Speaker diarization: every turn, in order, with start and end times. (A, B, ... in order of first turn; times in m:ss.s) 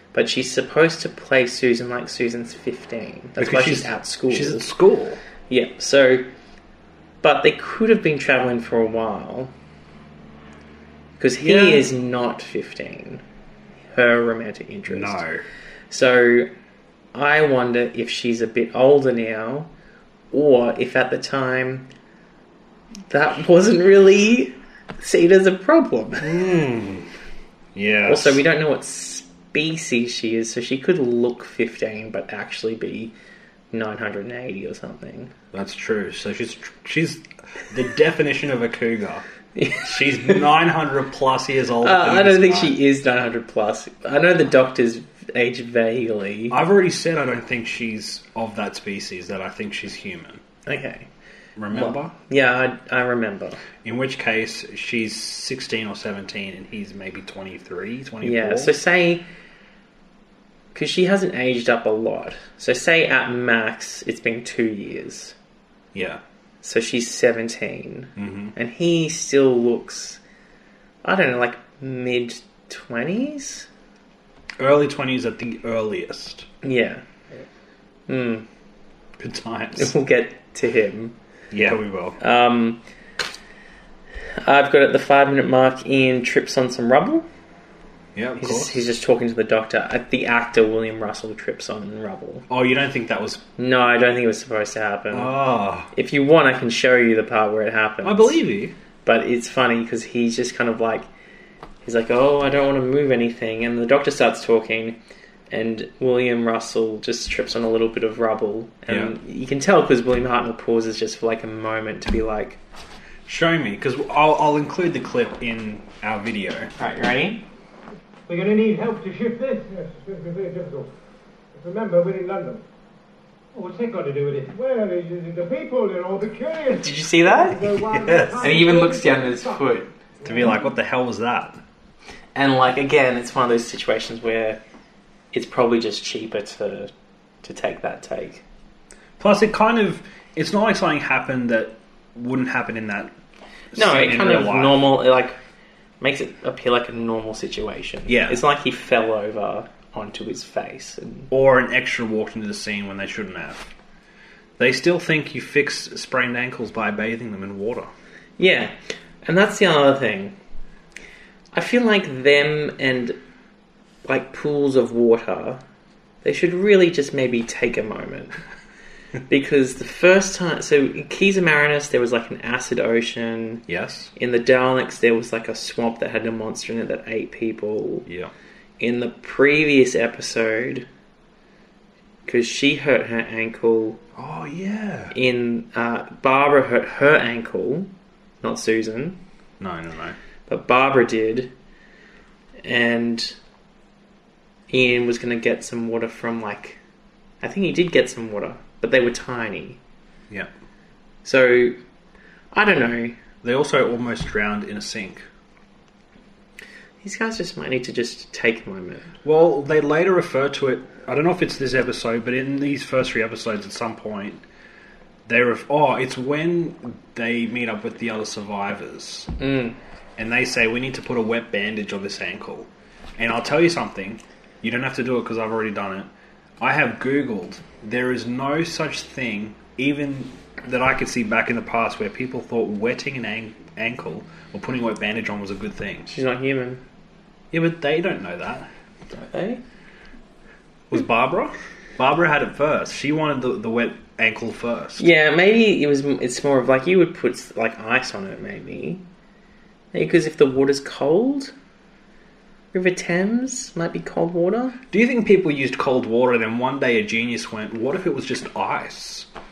0:00.1-0:04.7 A
0:03.4-0:05.2 B
0:05.5-0:06.3 A
0:07.2-0:09.5 A
0:11.2-0:13.2 A
0:11.4-0:11.8 B
0:13.9-0:15.2 A
0:14.9-0:15.4 B
0:15.9-0:16.5 A
0:17.1-0:19.7 A
0:20.3-0:21.9 A
0:23.1-0:26.4 A
0:26.2-0:27.1 B
0:27.7-0:28.4 B
0:28.0-0:33.1 A
0:33.7-0:35.3 A
0:35.5-0:39.2 B
0:39.5-0:40.4 A
0:39.8-0:42.8 B
0:41.8-0:46.6 A
0:46.5-0:50.4 B
0:50.6-0:51.1 A
0:51.6-0:52.1 B
0:51.7-0:53.6 A
0:53.8-0:58.8 B
0:58.2-0:59.2 A
1:00.7-1:05.4 A
1:05.9-1:06.2 B
1:06.6-1:10.2 A
1:08.2-1:08.5 B
1:11.0-1:13.7 A
1:14.6-1:16.5 B
1:16.6-1:17.0 A
1:18.1-1:18.4 A
1:19.2-1:19.9 B
1:19.8-1:21.2 A
1:21.5-1:22.2 B
1:22.2-1:22.8 A
1:24.4-1:27.2 A
1:28.1-1:28.8 B
1:28.4-1:32.4 A
1:32.5-1:33.4 B
1:33.6-1:35.3 A
1:35.1-1:35.9 B
1:35.9-1:38.4 A
1:38.0-1:38.7 B
1:39.0-1:41.0 A
1:41.8-1:45.0 A
1:45.5-1:52.6 A
1:48.9-1:49.1 B
1:53.2-1:56.7 B
1:56.8-1:57.4 A
1:58.3-2:00.9 C
2:01.5-2:02.6 C
2:03.5-2:09.7 C
2:06.7-2:07.7 A
2:07.8-2:08.7 B
2:08.4-2:09.9 A
2:10.2-2:10.6 C
2:10.2-2:11.6 B
2:12.3-2:14.6 A
2:15.3-2:16.9 A
2:17.4-2:18.4 A
2:19.2-2:23.1 B
2:23.7-2:24.8 B
2:23.7-2:25.4 A
2:26.0-2:31.3 A
2:28.1-2:28.4 B
2:31.3-2:33.7 B
2:34.6-2:37.9 B
2:38.4-2:40.3 A
2:41.5-2:43.2 A
2:44.0-2:45.6 A
2:46.2-2:48.4 A
2:49.3-2:53.6 A
2:53.7-2:54.1 B
2:54.2-2:58.1 A
2:58.1-2:58.3 B
2:58.8-3:00.9 A
3:02.2-3:04.0 A
3:04.2-3:05.1 B
3:05.1-3:07.9 A
3:08.4-3:09.2 A
3:09.6-3:10.2 B
3:10.5-3:11.5 A
3:12.6-3:13.4 A
3:14.7-3:16.8 A
3:17.4-3:19.8 A
3:21.2-3:21.8 A
3:22.5-3:23.2 A
3:23.4-3:25.2 B
3:27.0-3:29.1 A
3:29.2-3:34.4 B
3:35.3-3:39.3 B
3:39.4-3:39.8 A
3:40.2-3:46.1 B
3:46.6-3:56.1 B
3:56.1-3:56.8 A
3:57.5-3:58.7 B
3:59.1-3:59.6 A
4:00.9-4:05.0 B
4:05.0-4:09.0 A
4:09.9-4:11.5 A
4:12.7-4:14.8 A
4:14.9-4:19.3 B